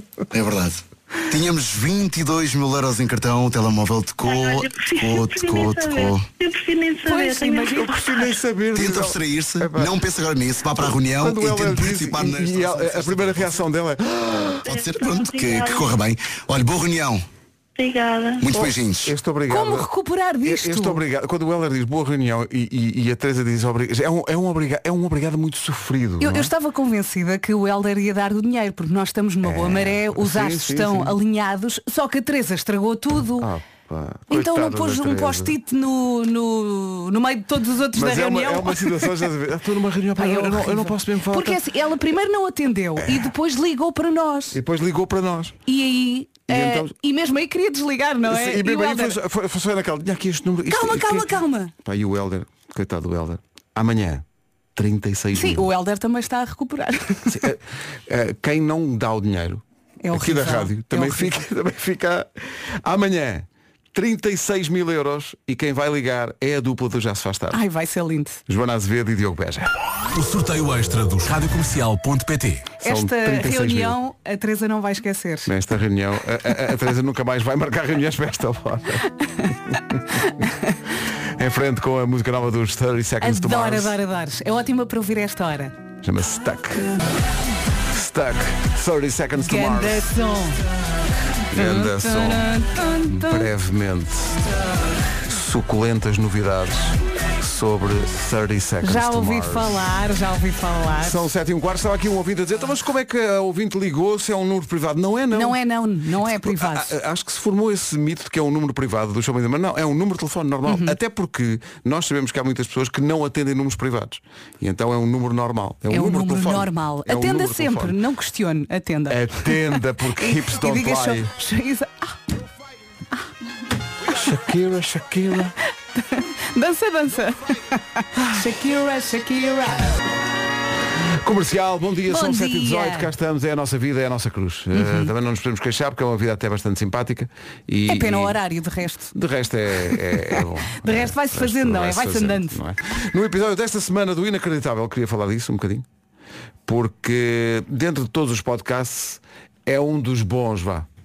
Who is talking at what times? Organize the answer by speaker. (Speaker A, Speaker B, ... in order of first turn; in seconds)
Speaker A: 0.3-6.3, 8.7-13.5, 14.6-17.2, 18.4-19.1
Speaker B: 4.2-8.4, 14.7-15.9, 17.8-18.7
Speaker C: 7.0-8.1, 19.5-21.0, 26.2-33.5, 34.3-39.2, 40.1-44.6, 45.6-49.1, 50.7-51.7, 55.3-57.4, 60.0-61.3, 67.5-68.4, 72.8-75.5, 83.2-85.8, 89.4-90.6, 91.5-93.5, 98.8-101.2, 105.3-106.9, 110.7-111.0, 115.9-122.2, 125.9-129.9, 132.1-133.1, 134.7-135.1, 137.9-139.1, 140.8-142.6
Speaker D: 7.7-9.9, 10.8-14.6, 19.0-19.9, 20.4-26.5, 29.4-31.2, 33.4-35.6, 37.9-41.6, 43.0-43.3, 44.5-45.6, 46.5-46.9, 48.3-51.3, 51.8-54.2, 54.7-55.7, 57.3-67.6, 68.5-69.7, 72.8-74.0, 75.5-79.0, 81.4-84.0, 86.0-86.9, 87.9-90.1, 91.5-92.5, 93.1-94.5, 95.3-99.8, 101.0-105.6, 106.3-118.0, 119.1-121.3, 124.1-125.5, 131.2-138.4, 139.1-145.8, 146.7-150.9
Speaker E: 70.1-72.7